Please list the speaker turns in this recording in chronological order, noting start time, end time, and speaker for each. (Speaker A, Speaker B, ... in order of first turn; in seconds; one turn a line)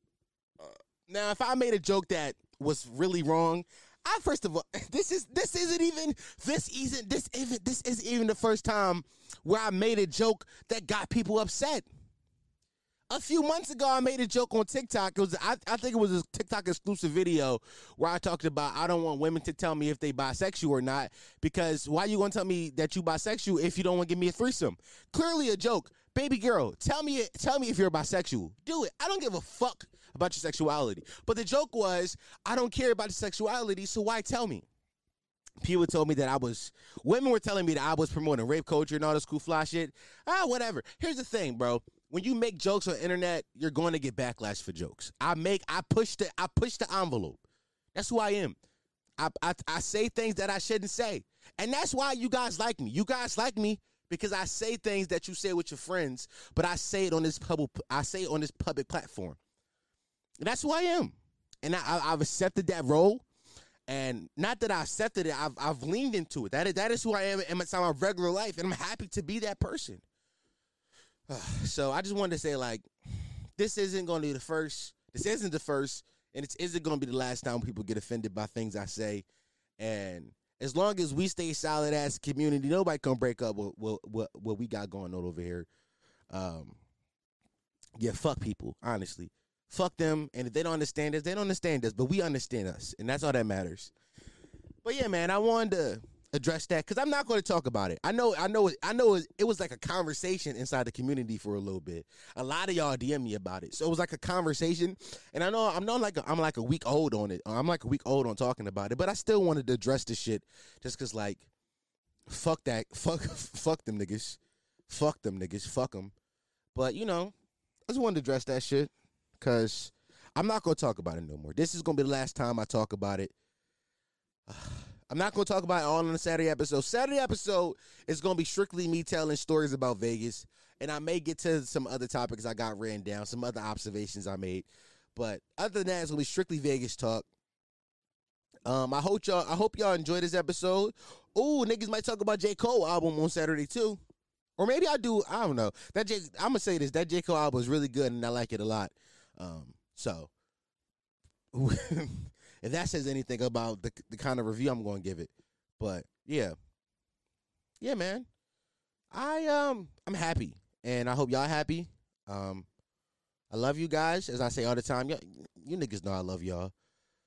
Speaker A: 0.6-11.9
Speaker A: 13.1-34.6
Speaker A: 35.6-47.4
Speaker A: 48.0-48.6
Speaker A: 49.2-59.4
Speaker A: 60.4-63.2
Speaker A: 63.9-70.0
Speaker A: 71.3-72.9
Speaker A: 73.6-79.2
Speaker A: 79.8-85.7
Speaker A: 86.3-86.8
Speaker A: 88.0-93.9
Speaker A: 94.8-111.5
Speaker A: 112.3-116.1
Speaker A: 116.8-117.3
Speaker A: 117.9-123.3
Speaker A: 124.5-137.3
Speaker A: 138.7-144.0
Speaker A: 144.6-150.3
Speaker A: 151.5-156.6
Speaker A: 157.8-158.3
Speaker A: 159.1-162.7
Speaker A: 163.5-166.7